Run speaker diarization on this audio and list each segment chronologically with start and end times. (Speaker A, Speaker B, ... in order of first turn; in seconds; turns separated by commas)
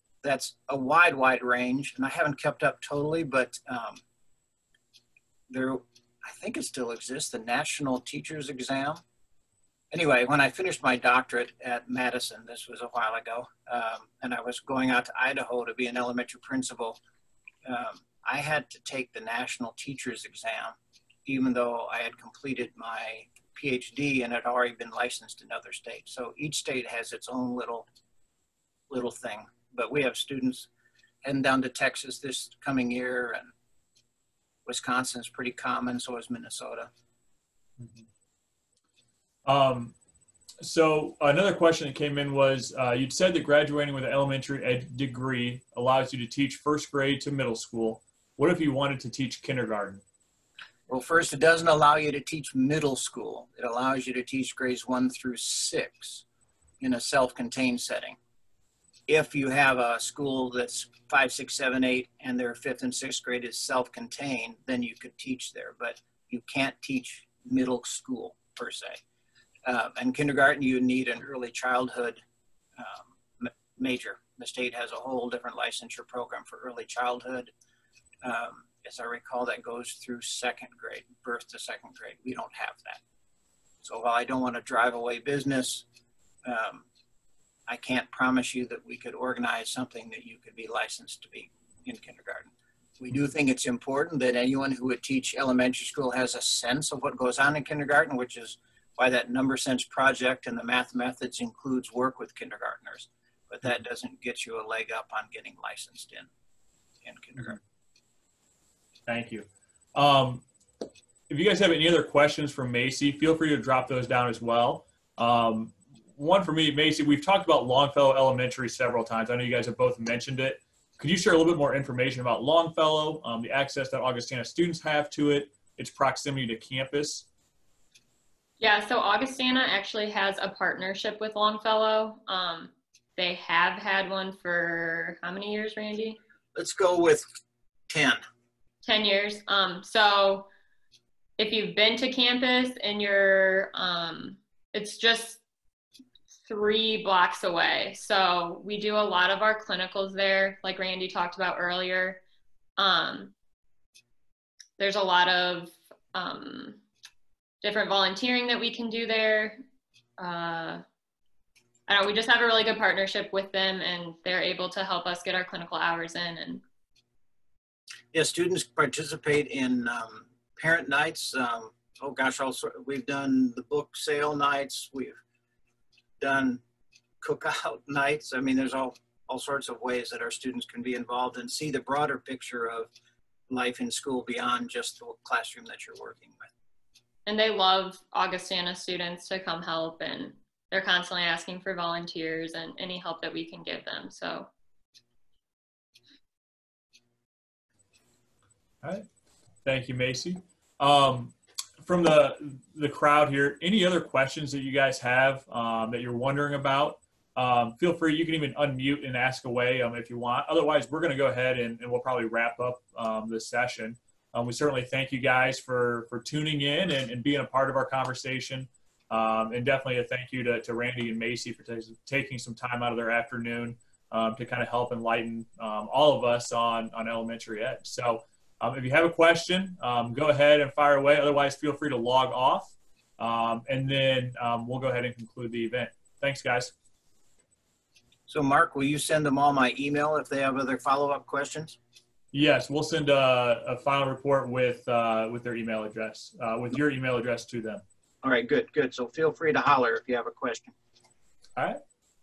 Speaker A: 0.2-4.0, Speaker A: 5.5-9.0, Speaker A: 9.9-17.0, Speaker A: 17.6-27.9, Speaker A: 28.9-30.7, Speaker A: 31.2-33.5, Speaker A: 34.7-36.9, Speaker B: 37.8-38.1, Speaker B: 39.5-39.9, Speaker B: 40.6-50.0, Speaker A: 50.9-56.2, Speaker A: 56.8-58.2, Speaker A: 59.1-69.0, Speaker A: 69.7-72.2, Speaker A: 72.8-77.5, Speaker A: 78.2-83.0, Speaker A: 83.8-85.8, Speaker A: 86.5-86.9, Speaker A: 87.7-106.3, Speaker A: 107.0-107.6, Speaker B: 109.1-110.5, Speaker B: 111.3-127.3, Speaker C: 128.6-136.2, Speaker A: 136.6-137.2, Speaker A: 137.9-138.2, Speaker C: 138.8-140.5, Speaker C: 141.4-145.4, Speaker C: 146.5-152.2, Speaker C: 152.8-153.3, Speaker C: 154.8-156.8, Speaker C: 157.6-159.6, Speaker C: 160.2-160.8, Speaker C: 161.9-166.6, Speaker A: 168.1-175.2, Speaker A: 176.2-176.6, Speaker A: 177.2-182.9, Speaker A: 183.5-186.5, Speaker C: 187.3-194.5, Speaker B: 199.7-236.7, Speaker A: 238.3-241.8, Speaker B: 242.3-247.8, Speaker A: 248.2-250.7